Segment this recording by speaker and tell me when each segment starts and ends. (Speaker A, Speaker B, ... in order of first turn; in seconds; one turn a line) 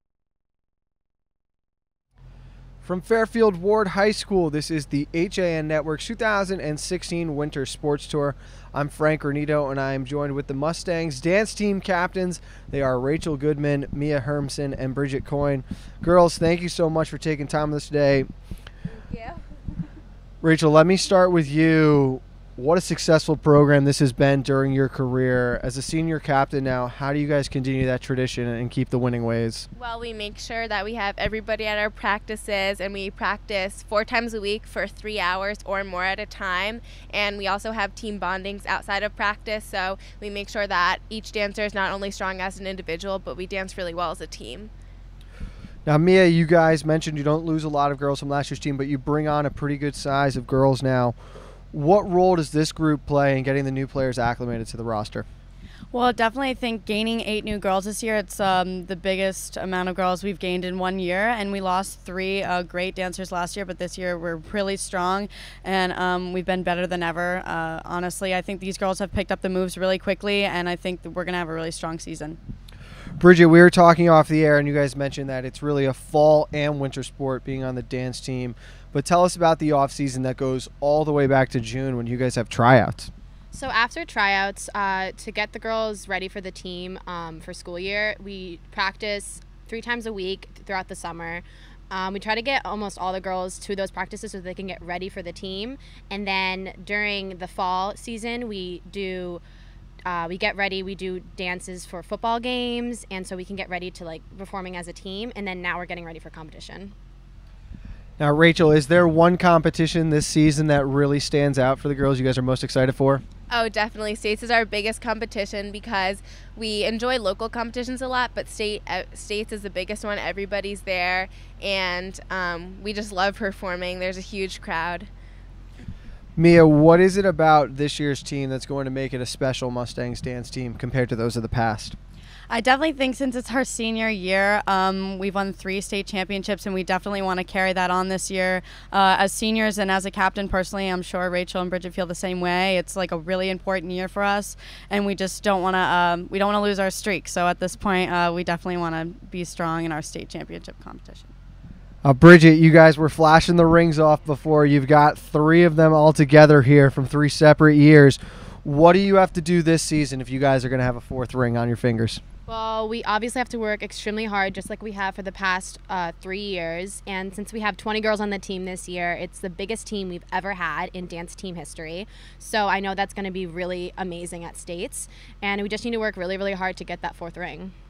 Speaker A: 2.8-18.3
Speaker B: 18.9-19.4
Speaker A: 20.4-29.7
Speaker B: 29.8-44.7
Speaker A: 45.9-51.1
Speaker A: 51.7-55.3
Speaker C: 55.9-72.4
Speaker A: 73.2-83.1
Speaker D: 83.5-99.4
Speaker D: 100.1-106.9
Speaker A: 108.2-113.2
Speaker B: 113.5-125.1
Speaker A: 126.3-132.0
Speaker C: 132.5-151.3
Speaker A: 152.0-162.2
Speaker D: 162.5-177.7